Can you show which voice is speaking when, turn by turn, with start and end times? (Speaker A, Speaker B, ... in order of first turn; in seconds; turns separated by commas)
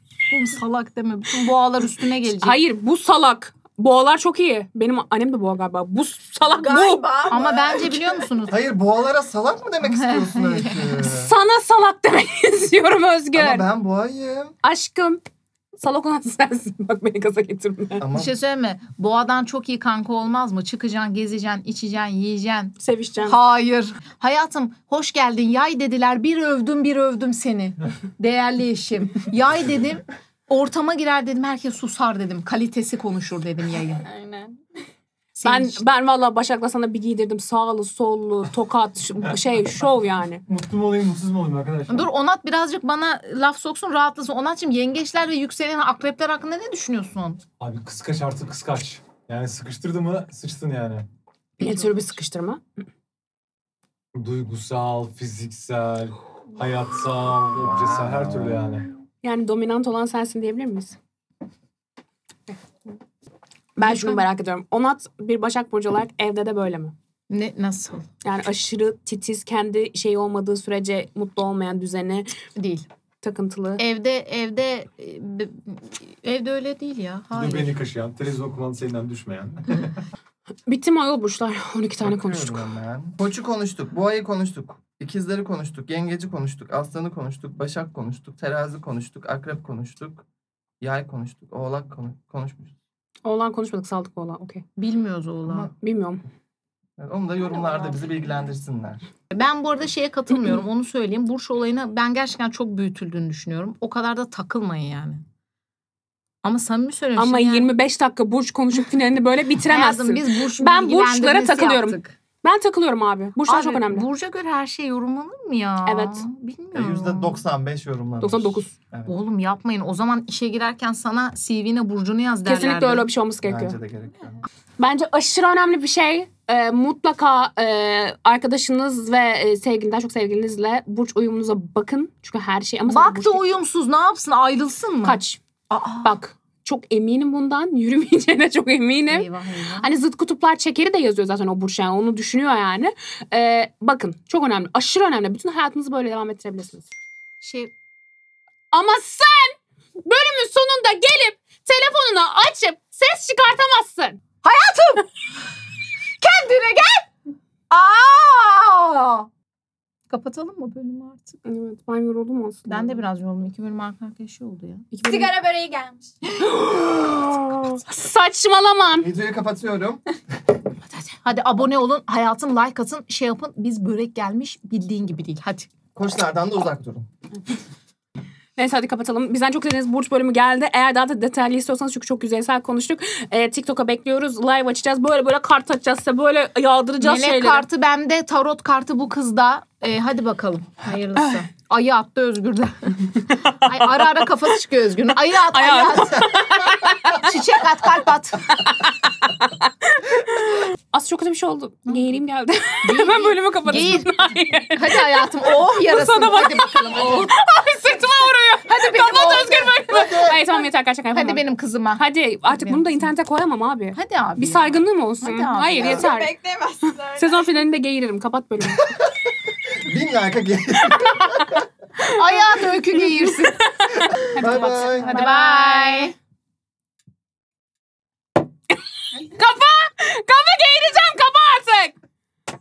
Speaker A: 0.3-2.6, Speaker B: 2.4-7.2, Speaker C: 6.5-8.3, Speaker A: 7.3-8.6, Speaker D: 8.5-11.3, Speaker A: 9.9-11.0, Speaker B: 11.0-13.7, Speaker D: 13.3-14.5, Speaker B: 14.6-15.2, Speaker B: 15.8-18.1, Speaker D: 18.0-18.3, Speaker A: 18.1-34.0, Speaker B: 22.8-23.4, Speaker C: 34.0-34.6, Speaker A: 35.3-35.8, Speaker B: 35.4-40.4, Speaker E: 40.5-42.1, Speaker A: 41.9-47.4, Speaker E: 47.6-51.0, Speaker A: 51.6-52.1, Speaker B: 51.6-52.6, Speaker E: 54.1-58.9, Speaker D: 57.5-58.7, Speaker B: 59.2-61.0, Speaker A: 63.8-64.2, Speaker B: 63.8-66.9, Speaker A: 67.3-68.1, Speaker B: 68.2-72.3, Speaker A: 72.5-72.8, Speaker B: 73.2-73.8, Speaker A: 73.8-77.7, Speaker E: 77.3-80.0, Speaker B: 80.7-82.6, Speaker D: 82.0-90.2, Speaker D: 90.8-92.7, Speaker B: 93.2-94.6, Speaker A: 94.8-95.7, Speaker B: 95.8-96.2, Speaker D: 97.0-99.0, Speaker C: 97.7-98.0, Speaker A: 99.3-105.2, Speaker A: 106.4-107.7, Speaker B: 107.2-114.0, Speaker A: 109.6-112.2, Speaker A: 113.4-117.4, Speaker B: 115.8-116.2, Speaker D: 116.7-119.1, Speaker B: 118.2-118.7, Speaker A: 119.0-123.1, Speaker B: 122.5-123.8, Speaker D: 123.4-124.5, Speaker B: 124.8-133.4, Speaker A: 132.8-136.2, Speaker B: 135.0-135.4, Speaker B: 136.0-139.3, Speaker A: 139.1-140.0, Speaker B: 139.8-146.9, Speaker A: 147.4-147.7, Speaker B: 148.7-154.2, Speaker A: 154.4-155.1, Speaker A: 156.2-157.1, Speaker A: 157.7-159.3, Speaker A: 160.1-161.4, Speaker B: 161.4-163.0, Speaker A: 162.7-164.9, Speaker B: 164.9-165.3, Speaker C: 165.0-166.1, Speaker B: 166.4-169.1, Speaker D: 169.0-170.0, Speaker A: 171.2-175.7, Speaker D: 175.9-177.1, Speaker B: 178.6-187.7, Speaker A: 187.0-196.5, Speaker B: 193.4-193.7, Speaker B: 195.5-197.3, Speaker A: 197.0-198.7, Speaker B: 198.5-211.4, Speaker A: 202.8-204.1, Speaker A: 204.7-207.3, Speaker A: 208.7-210.4, Speaker D: 209.9-210.4, Speaker A: 211.1-213.0, Speaker B: 212.0-216.3, Speaker A: 213.9-216.0, Speaker C: 215.8-217.5, Speaker B: 217.1-218.9, Speaker D: 218.9-221.6, Speaker B: 220.9-222.2, Speaker A: 222.0-223.6, Speaker B: 223.1-226.1, Speaker D: 224.3-225.2, Speaker A: 224.6-226.1, Speaker B: 229.2-231.9